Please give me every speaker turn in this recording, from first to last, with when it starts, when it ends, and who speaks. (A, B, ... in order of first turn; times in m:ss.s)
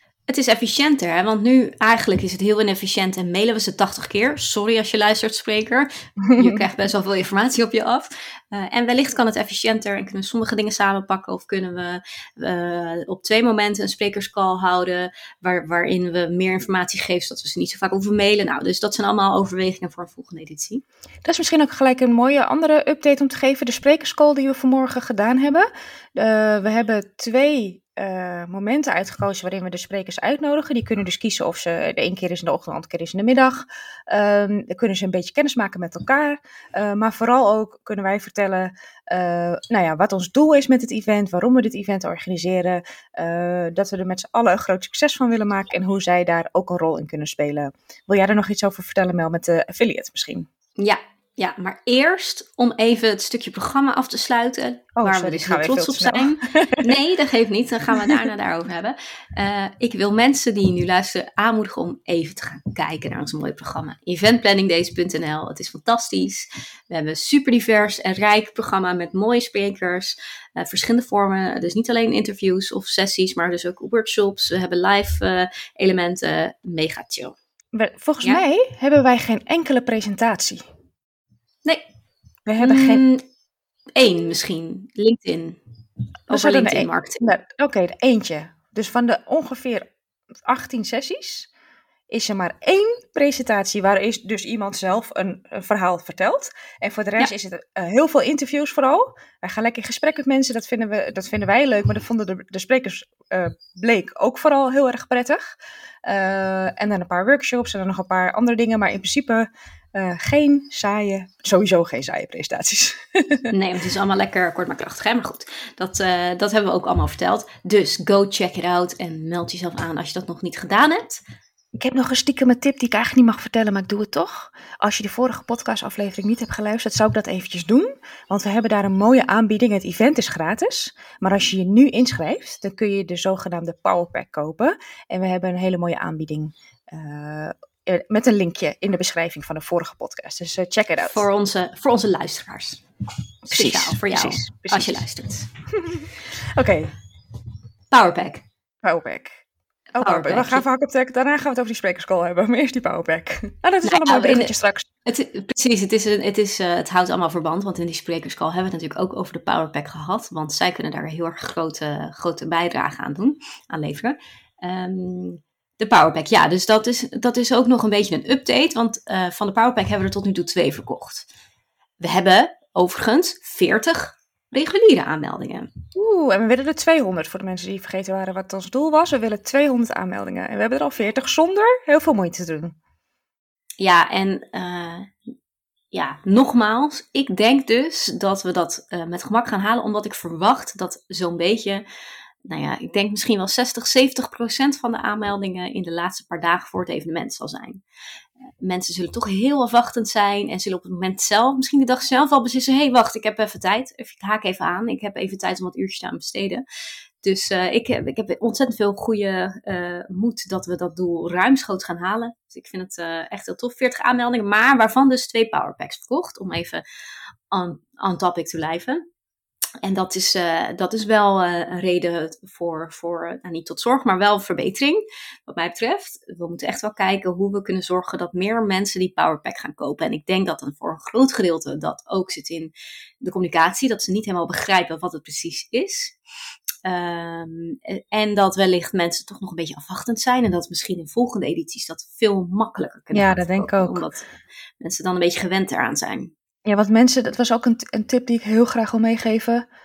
0:00.3-0:20.8 A
0:06.2-0:06.6 B
0:21.2-0:50.5 B
0:50.8-1:17.4 A
0:55.0-0:57.0 B
1:17.7-1:20.6 B
1:22.5-1:23.0 B
1:22.6-1:23.2 A
1:23.9-1:25.6 A
1:26.3-1:27.2 A
1:26.3-1:29.9 B
1:30.5-1:31.5 B
1:32.1-1:53.5 B
1:53.5-2:01.2 A
2:01.8-2:21.2 B
2:21.0-2:22.8 A
2:23.5-2:25.0 B
2:23.5-2:25.5 A
2:25.8-2:26.9 B
2:27.9-2:28.4 A
2:28.8-2:34.9 B
2:30.0-2:30.6 A
2:33.8-2:34.5 A
2:35.1-2:51.3 A
2:52.0-2:55.7 A
2:56.0-3:02.8 B
3:03.8-3:05.1 A
3:05.9-3:11.8 A
3:12.4-3:17.8 A
3:18.6-3:26.6 A
3:27.2-3:36.8 A
3:37.5-3:39.0 A
3:39.8-3:56.2 A
3:56.8-4:04.3 A
4:03.1-4:04.0 B
4:04.8-4:06.3 A
4:06.7-4:09.6 B